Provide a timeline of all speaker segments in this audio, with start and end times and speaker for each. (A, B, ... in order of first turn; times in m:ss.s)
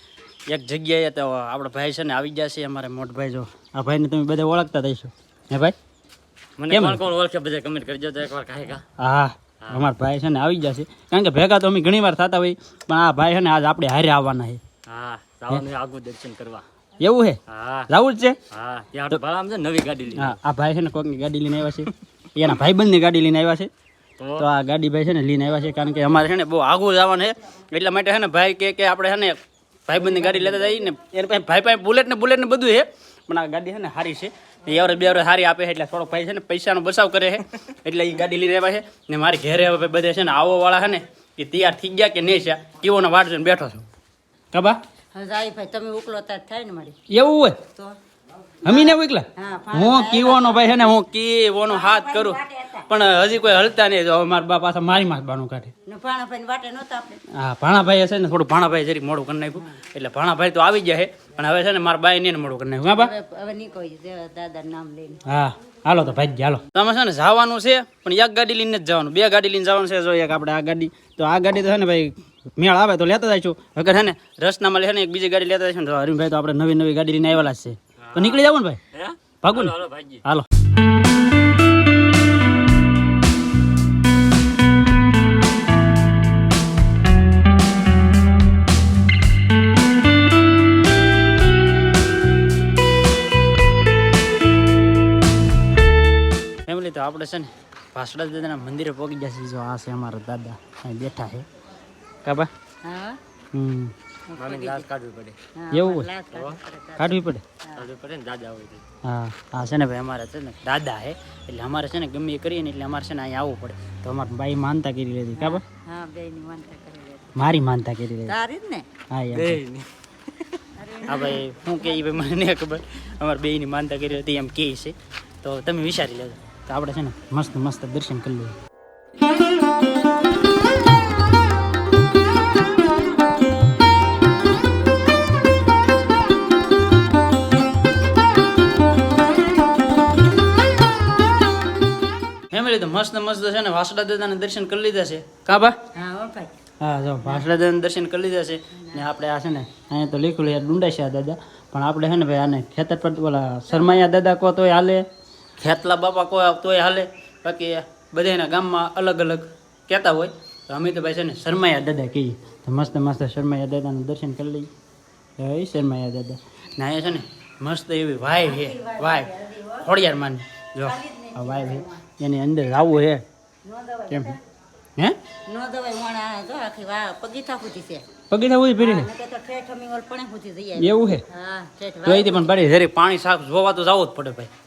0:00.5-0:05.8 A
0:06.6-0:08.8 B
0:06.7-0:07.0 A
0:09.0-0:14.6 A
0:14.9-0:16.6 B
0:17.0-0:18.4 A
0:17.5-0:17.9 B
0:18.5-0:20.4 B
0:20.1-0:23.7 A
0:24.2-0:24.4 B
0:24.4-0:43.8 A
0:44.5-0:44.8 A
0:45.1-0:47.0 C
0:47.1-0:47.6 A
0:48.6-0:55.7 A
0:48.6-0:50.8 C
0:51.6-0:52.8 C
0:55.8-0:57.2 C
0:57.3-1:03.1 A
1:03.0-1:05.2 C
1:05.2-1:18.8 A
1:18.1-1:20.2 B
1:19.4-1:20.4 A
1:36.7-1:41.4 A
1:42.2-1:42.5 A
1:42.8-1:43.2 C
1:43.5-1:43.9 A
1:44.3-1:44.9 C
1:44.4-1:45.4 B
1:45.6-1:47.9 C
1:45.7-1:46.1 A
1:46.3-1:46.6 B
1:47.0-1:47.4 A
1:47.8-1:48.8 B
1:49.0-1:55.6 A
1:55.4-1:57.3 C
1:57.3-1:58.3 A
1:58.3-1:58.9 C
1:59.1-1:59.6 A
1:59.3-1:59.9 B
2:00.8-2:02.2 C
2:01.0-2:08.5 A
2:22.5-2:25.8 A
2:25.9-2:26.5 C
2:26.8-2:35.0 A
2:35.6-2:44.7 A
2:45.4-2:53.2 A
2:48.4-2:49.9 C
2:50.8-2:52.0 C
2:53.6-2:54.4 C
2:54.1-2:54.3 A
2:55.5-2:58.0 C
2:58.3-2:59.1 A
2:58.8-3:02.6 C
3:00.8-3:01.2 A
3:02.0-3:04.5 A